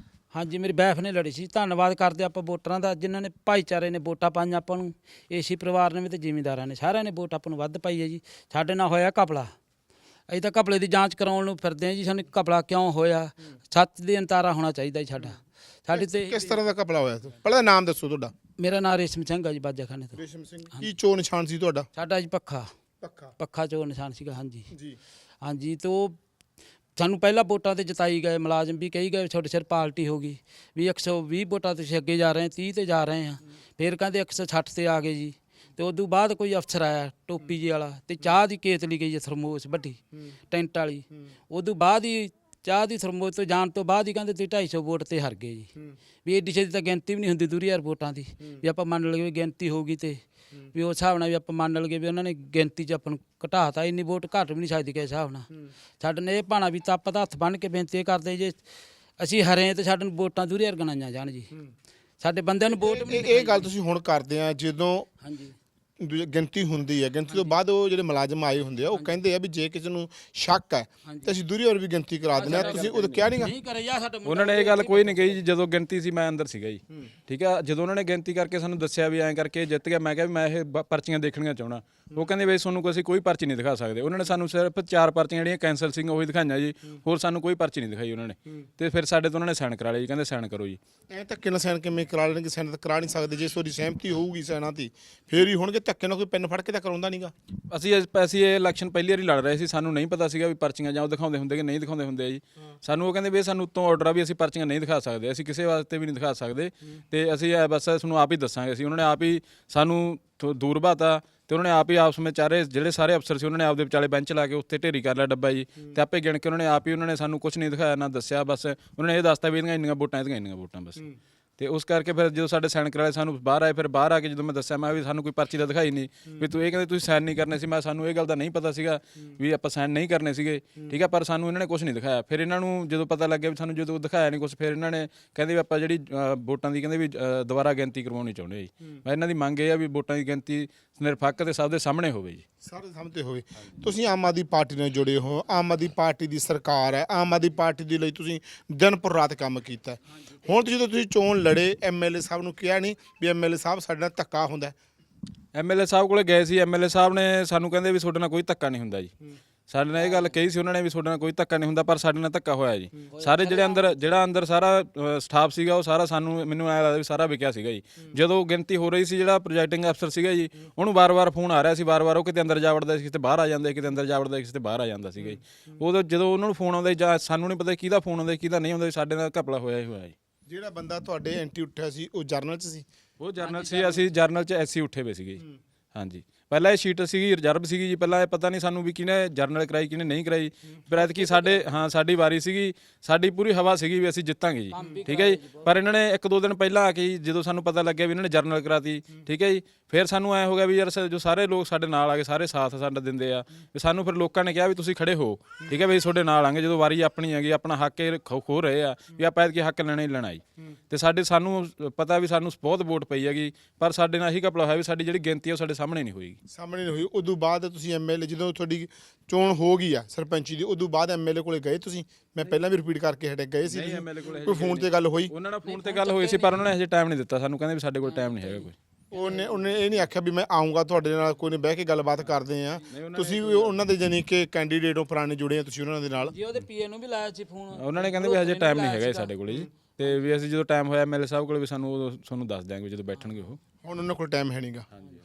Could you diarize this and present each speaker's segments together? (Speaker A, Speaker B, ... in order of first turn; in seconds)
Speaker A: 0.3-9.5, 10.3-16.6, 18.6-20.2, 21.9-22.7, 23.4-24.7, 25.4-26.2, 27.0-45.7, 46.2-50.2, 50.7-55.5, 56.0-58.6, 59.2-61.5, 62.2-63.7, 65.2-65.5, 67.3-67.5, 68.9-69.2, 71.0-71.3, 72.3-75.4, 160.1-160.3, 163.1-164.2, 183.4-184.1, 190.9-191.7, 194.7-195.8, 225.7-226.7, 228.0-228.7, 236.3-239.3, 240.0-240.3
Speaker B: 15.9-18.3, 20.2-21.9, 23.0-23.3, 24.7-25.0, 62.7-65.1, 66.0-73.5, 91.1-97.3, 142.6-154.8, 180.5-182.9, 216.5-225.3, 229.1-236.3, 243.8-244.9
Speaker C: 72.4-72.9, 74.2-90.8, 97.7-121.0, 121.6-142.4, 155.5-159.1, 159.7-180.2, 183.2-185.4, 185.9-216.4, 223.7-228.7, 232.9-233.8, 237.8-243.6